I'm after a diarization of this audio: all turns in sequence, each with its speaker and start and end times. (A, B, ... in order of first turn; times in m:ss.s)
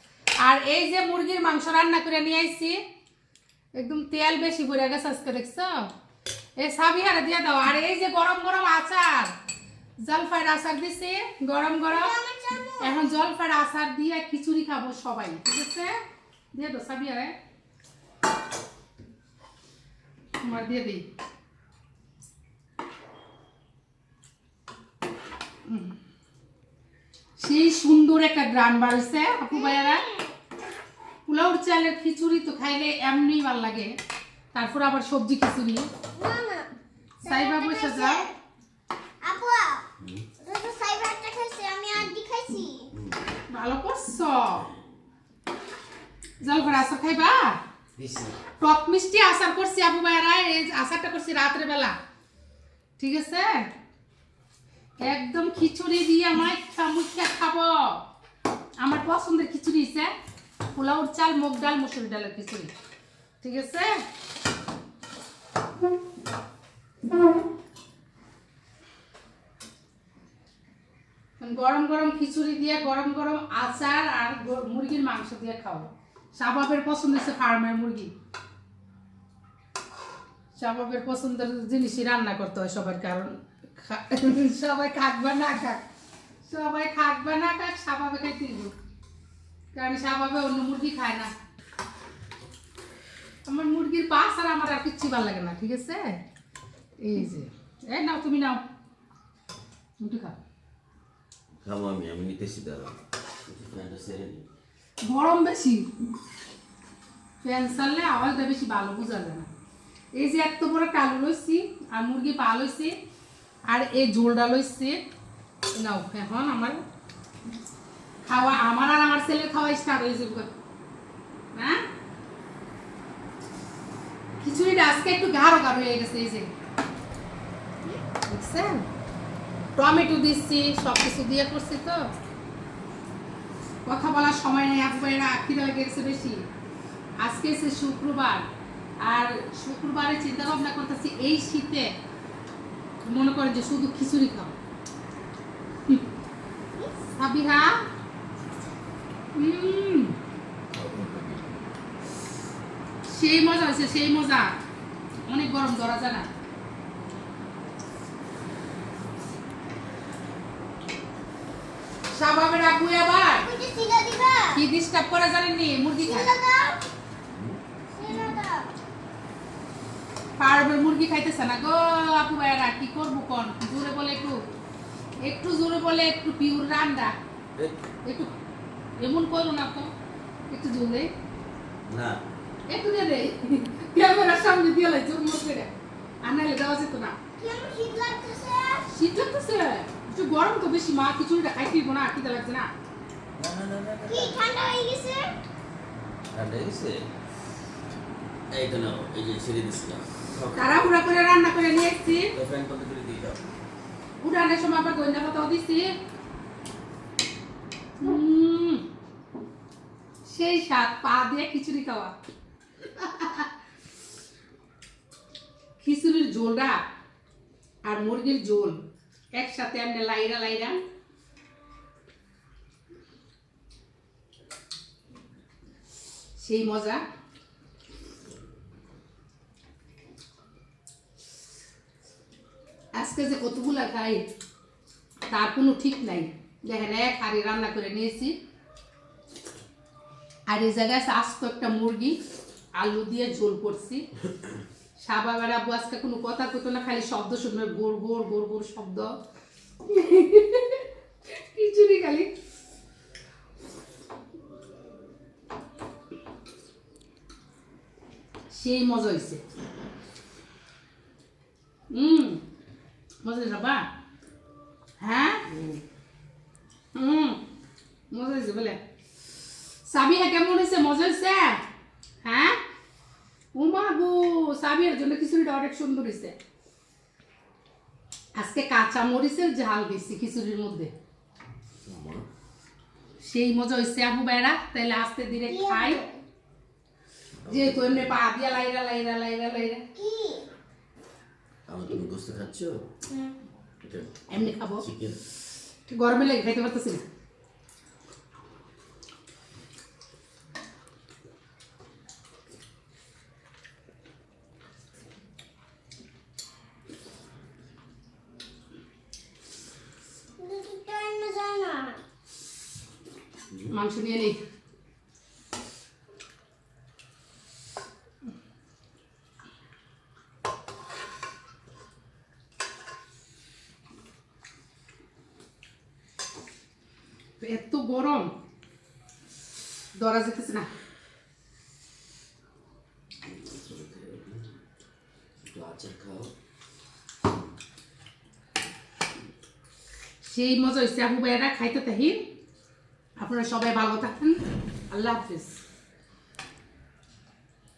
0:00.4-0:02.8 A
0:03.8-0:05.9 A
0:06.6-0:09.3 A
0:10.0-0:12.1 A
0:11.9-0:13.0 B
0:12.8-0:15.9 A
0:16.5-0:17.3 A
0:20.4-0:21.0 A
0:25.7-0:26.0 A
0:27.4-0:30.0 A
0:29.5-0:30.3 B
0:31.3-0:33.9 A
0:34.5-0:35.9 A
0:36.1-0:36.7 B
0:37.2-0:38.4 B
0:37.2-0:38.2 A
0:39.2-0:39.9 B
0:40.0-0:40.3 C
0:40.4-0:42.9 B
0:42.9-0:43.2 C
0:43.5-0:44.7 A
0:46.4-0:47.6 A
0:48.0-0:48.4 C
0:48.6-0:52.0 A
0:53.0-0:53.7 A
0:55.0-0:58.0 A
0:58.8-1:00.1 A
1:00.7-1:02.7 A
1:03.4-1:03.9 A
1:11.4-1:18.1 A
1:20.6-1:25.8 A
1:26.4-1:28.7 A
1:29.7-1:31.3 A
1:33.4-1:36.2 A
1:37.0-1:38.6 A
1:40.0-1:40.4 A
1:41.6-1:44.5 C
1:45.0-1:45.9 A
1:47.4-1:49.5 A
1:50.1-1:52.9 A
1:53.7-1:55.0 A
1:55.7-1:56.8 A
1:58.2-2:00.5 A
2:04.4-2:06.5 A
2:08.3-2:08.9 A
2:09.8-2:12.0 A
2:13.8-2:16.4 A
2:17.2-2:18.4 A
2:19.0-2:21.9 A
2:23.0-2:24.5 A
2:27.2-2:27.8 A
2:29.3-2:30.1 A
2:30.7-2:31.6 C
2:33.1-2:34.5 A
2:35.3-2:36.3 A
2:42.1-2:43.5 A
2:43.2-2:44.6 B
2:44.5-2:46.4 A
2:46.0-2:46.8 B
2:47.3-2:47.6 C
2:47.9-2:48.7 B
2:50.4-2:54.4 A
2:55.2-2:57.1 A
2:58.0-2:58.3 A
2:59.0-2:59.9 A
3:00.5-3:01.1 A
3:01.9-3:02.2 C
3:02.7-3:05.7 A
3:06.2-3:07.2 A
3:07.4-3:08.9 B
3:08.9-3:12.7 A
3:13.4-3:14.4 C
3:14.1-3:15.3 B
3:16.3-3:17.1 C
3:18.5-3:20.8 C
3:20.5-3:22.3 A
3:22.3-3:23.4 C
3:24.2-3:26.0 A
3:28.0-3:28.8 A
3:30.2-3:32.1 A
3:33.0-3:33.5 A
3:35.8-3:36.8 A
3:37.8-3:38.8 A
3:39.3-3:40.8 A
3:46.4-3:47.0 A
3:52.9-3:54.2 A
3:55.3-3:58.4 A
4:00.5-4:02.2 A
4:02.8-4:04.0 A
4:05.0-4:09.1 A
4:09.8-4:12.3 A
4:18.5-4:19.4 A
4:21.9-4:22.4 A
4:23.2-4:23.8 A
4:25.0-4:25.4 A
4:25.5-4:25.8 C
4:26.9-4:27.4 A
4:28.1-4:28.8 A
4:29.8-4:31.6 A
4:32.2-4:32.6 A
4:33.5-4:36.4 A
4:38.4-4:40.9 A
4:41.8-4:42.2 C
4:43.2-4:46.0 A
4:45.5-4:46.2 B
4:47.4-4:48.2 C
4:47.5-4:49.8 A
4:49.9-4:50.5 B
4:51.7-4:52.9 C
4:53.8-4:55.2 C
4:54.3-4:54.8 A
4:55.9-4:57.0 A
5:10.4-5:12.0 B
5:13.5-5:13.8 C
5:13.7-5:14.4 A
5:27.4-5:28.4 A
5:29.9-5:30.7 A
5:33.2-5:34.5 C
5:35.4-5:36.3 C
5:40.2-5:42.3 A
5:43.2-5:45.6 A